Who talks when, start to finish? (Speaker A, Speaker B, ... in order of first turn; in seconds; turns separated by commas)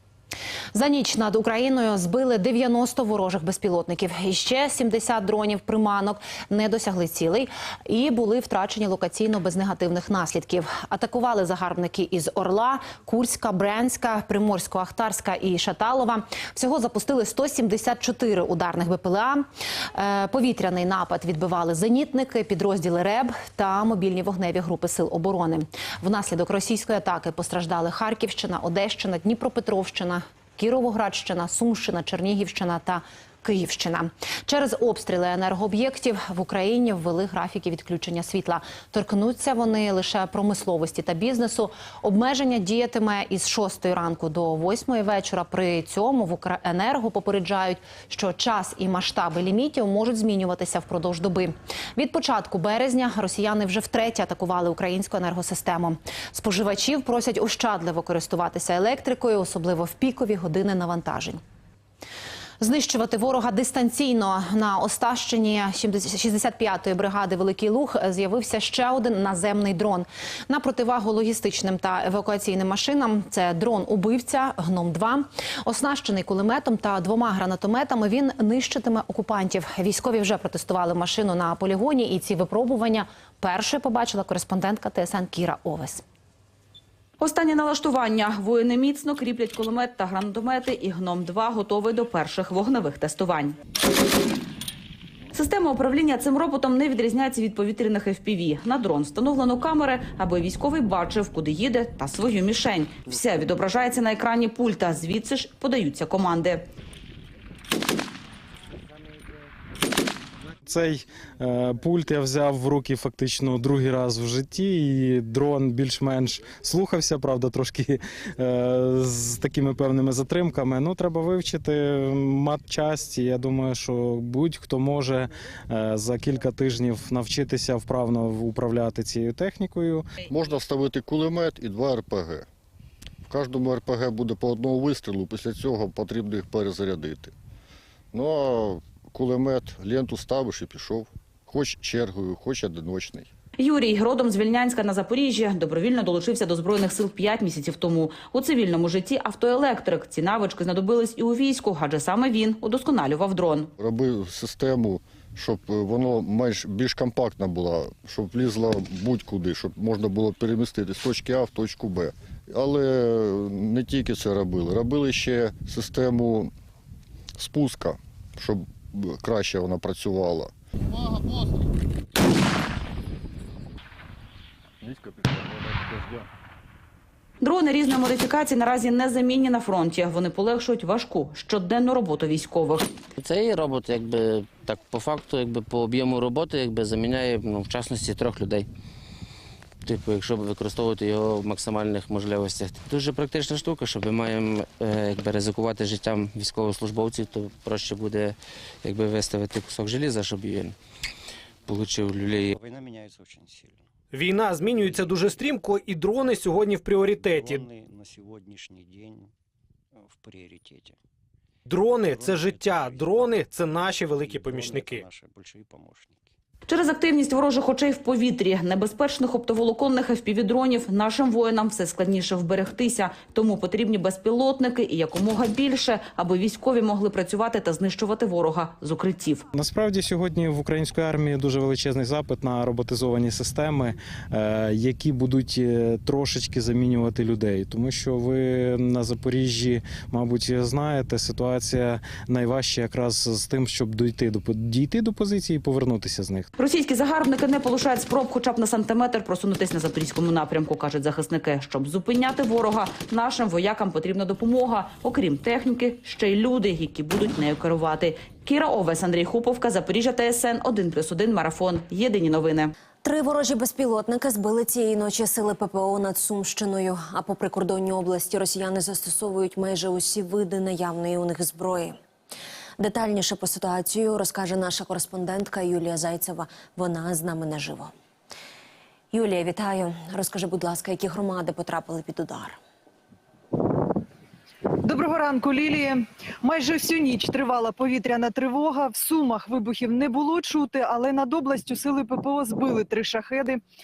Speaker A: 0.8-61.4, Speaker A: 62.6-86.0, Speaker B: 87.2-93.6, Speaker B: 95.3-106.7, Speaker C: 110.7-130.1, Speaker D: 130.3-132.5, Speaker D: 133.3-137.3, Speaker D: 138.1-143.3, Speaker B: 143.6-153.7, Speaker D: 153.8-166.5, Speaker D: 167.4-170.5, Speaker B: 177.4-183.0, Speaker E: 183.2-188.7, Speaker E: 189.8-200.8, Speaker E: 201.7-202.6, Speaker F: 202.5-203.9, Speaker G: 204.1-207.5, Speaker F: 204.7-205.5, Speaker F: 207.1-209.3, Speaker F: 209.9-211.0, Speaker G: 211.7-215.0, Speaker F: 211.7-216.3, Speaker B: 216.7-229.5, Speaker C: 229.6-246.5, Speaker B: 246.6-262.7, Speaker H: 263.0-272.0, Speaker H: 272.8-277.9, Speaker H: 279.1-282.6, Speaker I: 284.8-293.6